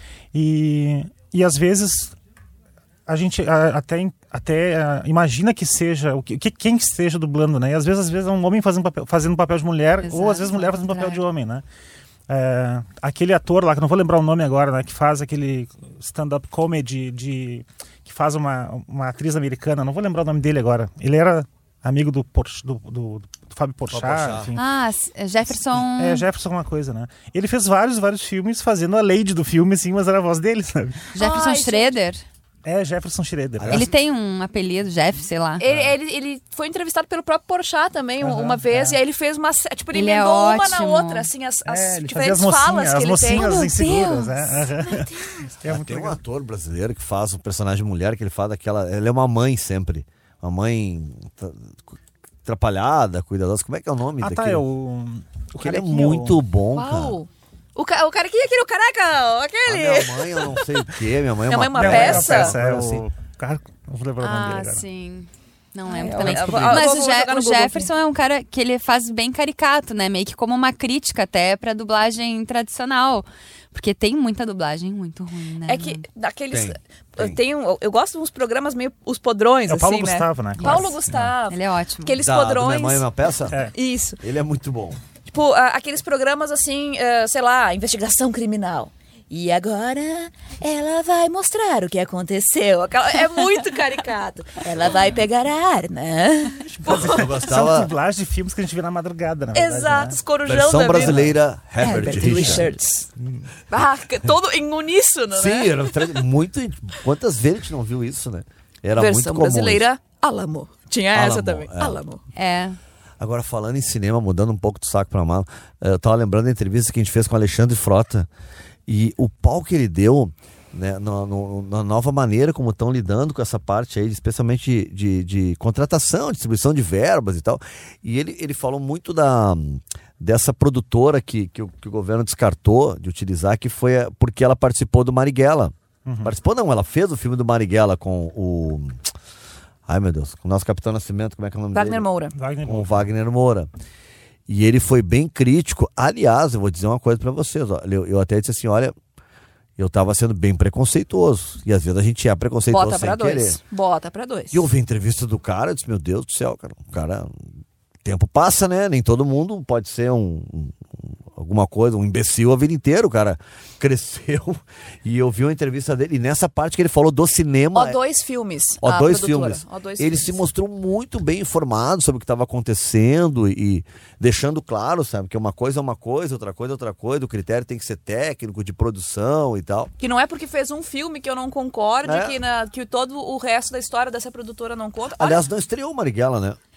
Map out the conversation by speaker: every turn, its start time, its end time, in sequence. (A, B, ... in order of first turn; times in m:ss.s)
0:00.3-0:02.2 A
0:03.1-0:11.6 A
0:10.0-0:11.2 B
0:12.3-0:24.6 A
0:23.9-0:24.6 C
0:24.6-0:26.3 B
0:25.7-0:31.1 A
0:31.2-0:32.2 B
0:31.2-0:32.0 D
0:32.6-0:33.9 A
0:33.6-0:33.9 C
0:33.7-0:35.6 B
0:35.6-0:43.8 D
0:38.2-0:39.0 A
0:39.9-0:41.3 B
0:41.7-0:46.2 A
0:43.4-0:44.4 B
0:44.8-0:45.4 D
0:45.7-0:54.6 C
0:54.2-0:56.4 A
0:55.6-0:57.2 C
0:56.7-1:00.7 D
0:59.7-1:03.0 C
1:01.5-1:02.6 D
1:01.8-1:04.8 A
1:04.2-1:16.0 B
1:05.9-1:07.9 D
1:06.2-1:06.8 C
1:15.7-1:23.1 D
1:16.5-1:17.4 C
1:19.7-1:21.4 A
1:20.6-1:22.2 B
1:22.2-1:23.6 C
1:23.5-1:23.7 A
1:23.7-1:24.2 D
1:24.2-1:25.0 C
1:25.3-1:37.3 D
1:36.6-1:40.2 A
1:36.9-1:37.9 C
1:39.5-1:43.1 D
1:40.4-1:42.7 C
1:41.0-1:41.3 A
1:42.1-1:42.7 A
1:43.2-1:43.5 A
1:43.7-1:46.1 D
1:45.3-1:49.9 C
1:49.0-1:52.2 D
1:51.1-1:52.0 C
1:52.4-1:52.8 B
1:53.2-1:58.3 C
1:58.9-2:19.1 C
2:16.1-2:16.3 A
2:19.9-2:22.1 C
2:21.7-2:22.4 D
2:22.3-2:23.1 A
2:22.6-2:23.7 C
2:24.5-2:28.9 C
2:29.8-2:33.6 C
2:32.7-2:34.7 D
2:34.5-2:37.4 C
2:38.0-2:40.8 C
2:41.3-2:48.0 C
2:47.8-2:50.4 D
2:48.8-2:59.9 C
3:00.0-3:05.4 D
3:02.0-3:02.4 C
3:05.2-3:06.6 C